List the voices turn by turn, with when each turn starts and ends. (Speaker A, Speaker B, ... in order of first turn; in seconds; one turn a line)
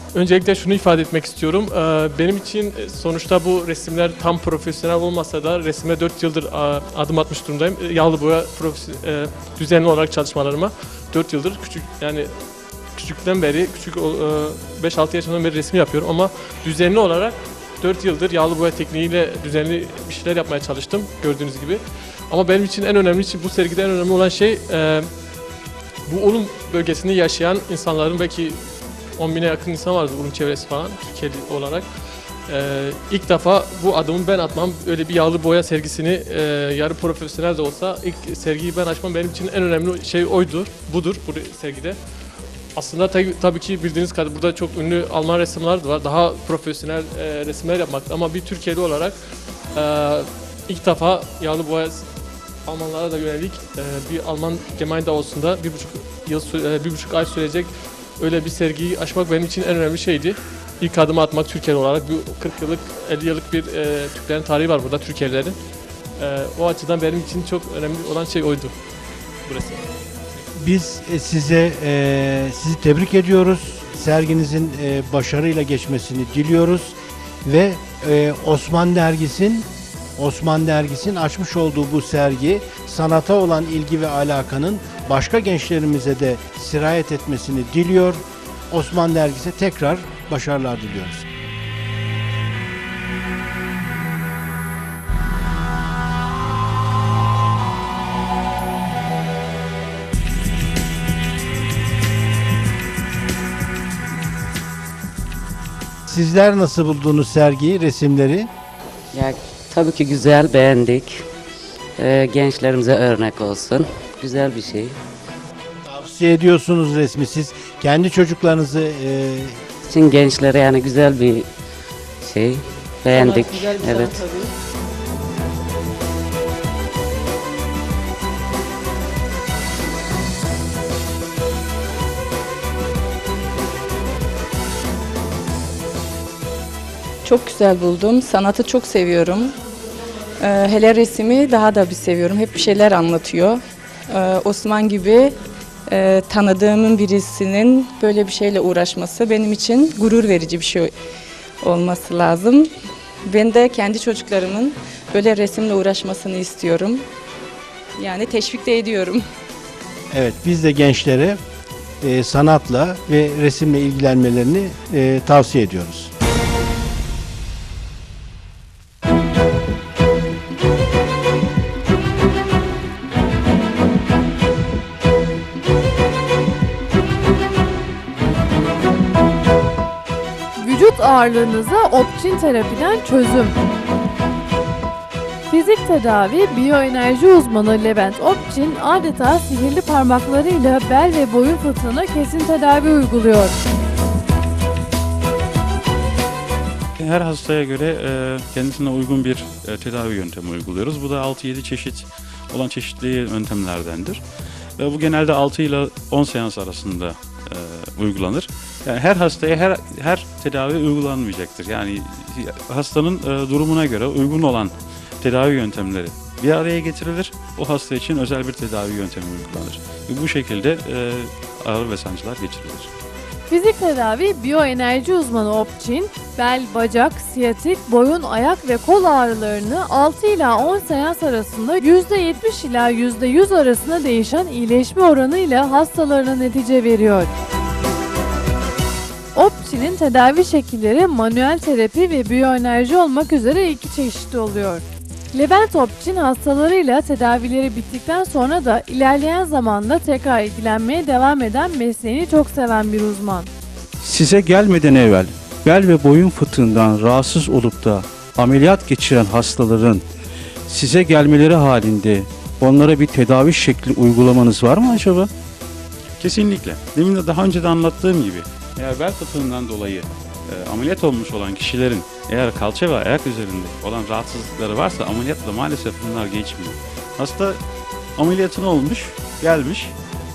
Speaker A: 0.1-12.3
Speaker A: 12.9-25.1
Speaker A: 26.1-28.6
Speaker A: 29.2-31.9
Speaker A: 32.5-42.0
Speaker A: 42.8-49.2
Speaker A: 49.7-52.0
Speaker A: 52.7-65.6
Speaker A: 66.2-68.7
Speaker A: 69.5-69.8
Speaker B: 70.5-91.2
Speaker B: 106.1-108.5
Speaker C: 109.1-111.2
Speaker C: 112.0-115.0
Speaker B: 115.8-119.6
Speaker C: 119.8-121.5
Speaker C: 122.2-124.2
Speaker D: 137.2-139.5
Speaker D: 140.4-145.3
Speaker D: 145.9-150.9
Speaker D: 151.6-152.7
Speaker D: 153.2-157.0
Speaker D: 158.0-159.2
Speaker B: 160.1-161.4
Speaker B: 162.0-166.1
Speaker E: 180.6-183.6
Speaker E: 185.5-193.6
Speaker F: 197.0-204.2
Speaker F: 204.8-222.9
Speaker E: 223.5-237.3
Speaker E: 239.3-253.5
Speaker G: 254.0-260.0
Speaker G: 260.7-265.3
Speaker F: 266.2-277.6
Speaker F: 278.1-279.9